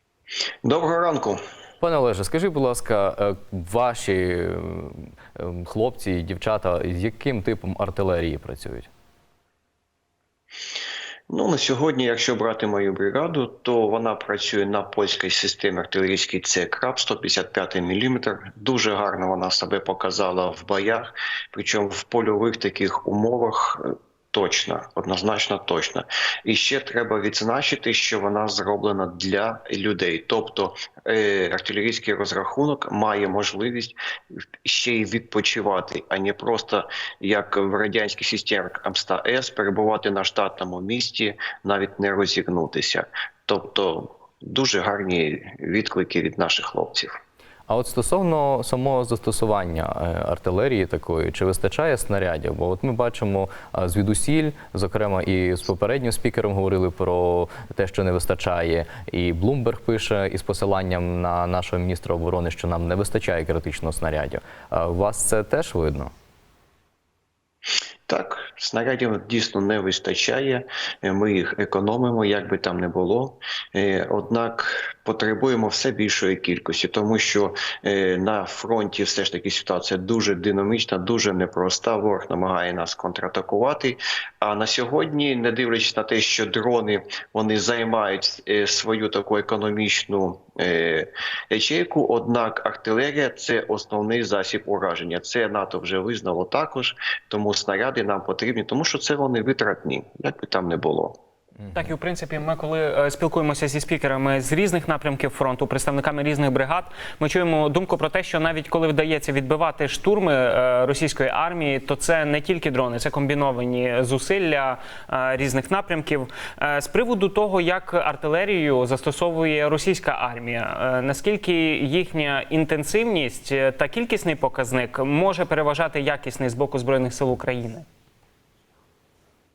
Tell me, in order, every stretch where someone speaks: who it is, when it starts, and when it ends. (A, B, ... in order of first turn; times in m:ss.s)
0:00.6-0:01.4 A
0:01.8-0:08.9 B
0:11.3-0:34.0 A
0:34.6-0:47.1 A
0:47.7-1:06.1 B
1:08.1-1:41.2 A
1:41.7-2:07.8 C